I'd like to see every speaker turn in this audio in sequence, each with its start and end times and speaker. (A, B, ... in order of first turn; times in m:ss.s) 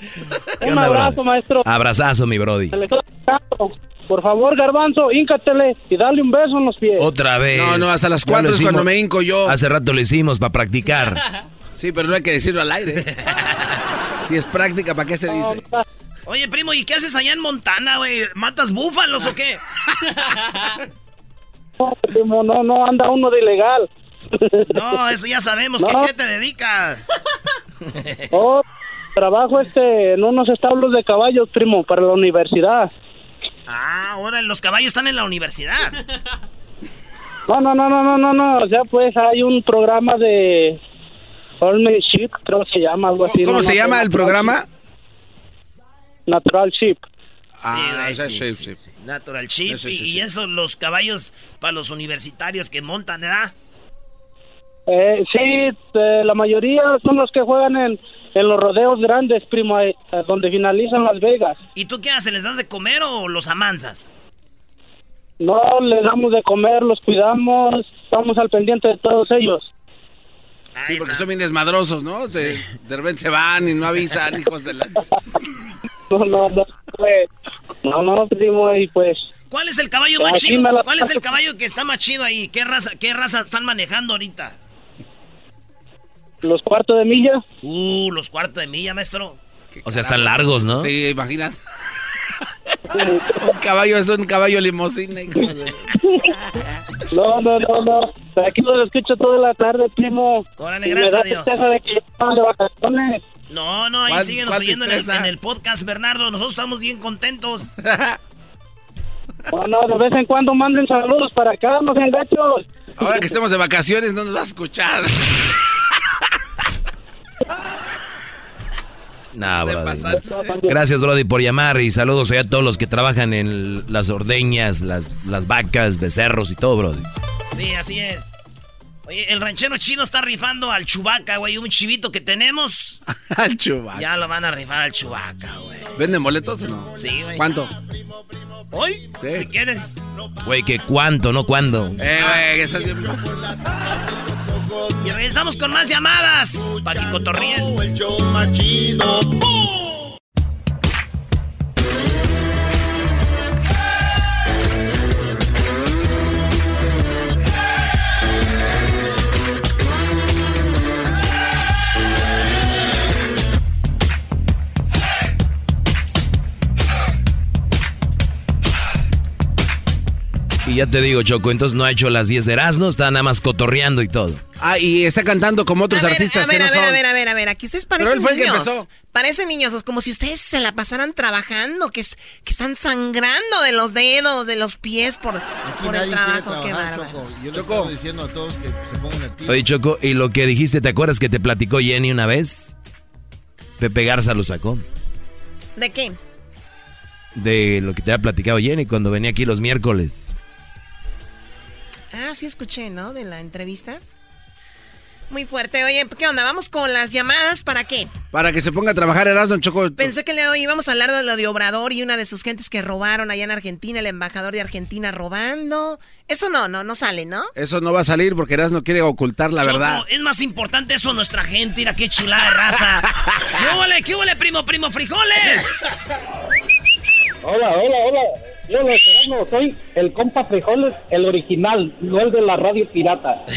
0:00.6-0:01.6 A
0:00.6-0:02.8 B
0:02.7-0:07.1 A
0:07.0-0:08.9 B
0:07.5-0:09.6 C
0:09.4-0:11.2 B
0:11.8-0:13.1 C
0:14.2-0:15.6 C
0:15.3-0:15.8 A
0:16.2-0:19.6 D
0:21.8-0:25.0 A
0:24.7-0:27.1 D
0:25.8-0:26.1 A
0:27.9-0:28.3 D
0:28.3-0:28.6 A
0:29.2-0:32.9 A
0:33.7-0:36.0 D
0:37.5-0:40.8 A
0:41.6-0:44.6 A
0:43.2-0:44.7 C
0:46.3-0:47.0 A
0:47.6-0:48.8 C
0:47.7-0:53.5 D
0:49.7-0:50.2 C
0:54.9-1:01.6 A
1:01.7-1:04.1 D
1:05.4-1:09.7 A
1:10.8-1:11.3 D
1:10.9-1:15.1 C
1:16.1-1:17.3 A
1:17.8-1:19.3 A
1:19.5-1:24.6 D
1:20.2-1:21.2 A
1:26.4-1:27.4 A
1:27.6-1:29.4 D
1:29.8-1:31.6 C
1:29.8-1:30.9 B
1:32.9-1:33.3 A
1:33.4-1:35.9 C
1:37.1-1:43.2 A
1:40.6-1:41.6 D
1:43.5-1:47.7 D
1:44.1-1:45.3 C
1:47.8-1:48.2 C
1:49.5-1:52.7 A
1:53.0-1:55.6 C
1:59.3-2:07.1 B
1:59.6-2:00.4 C
2:07.5-2:08.4 D
2:09.0-2:13.0 D
2:13.2-2:14.1 C
2:13.9-2:15.9 D
2:16.0-2:17.7 C
2:16.9-2:17.5 D
2:18.7-2:20.0 D
2:19.2-2:19.5 C
2:20.4-2:22.0 B
2:22.0-2:23.2 C
2:22.1-2:22.4 D
2:25.0-2:27.8 D
2:50.6-2:54.4 B
2:54.6-2:57.0 C
2:55.9-3:07.4 E
2:58.0-2:58.9 C
3:05.6-3:09.7 F
3:07.5-3:07.9 C
3:09.5-3:12.7 B
3:13.8-3:14.8 B
3:15.8-3:16.2 E
3:17.4-3:20.4 B
3:22.1-3:24.0 E
3:25.3-3:28.1 E
3:28.3-3:30.1 C
3:30.0-3:37.5 E
3:37.6-3:40.0 C
3:39.6-3:46.0 D
3:47.4-3:53.4 G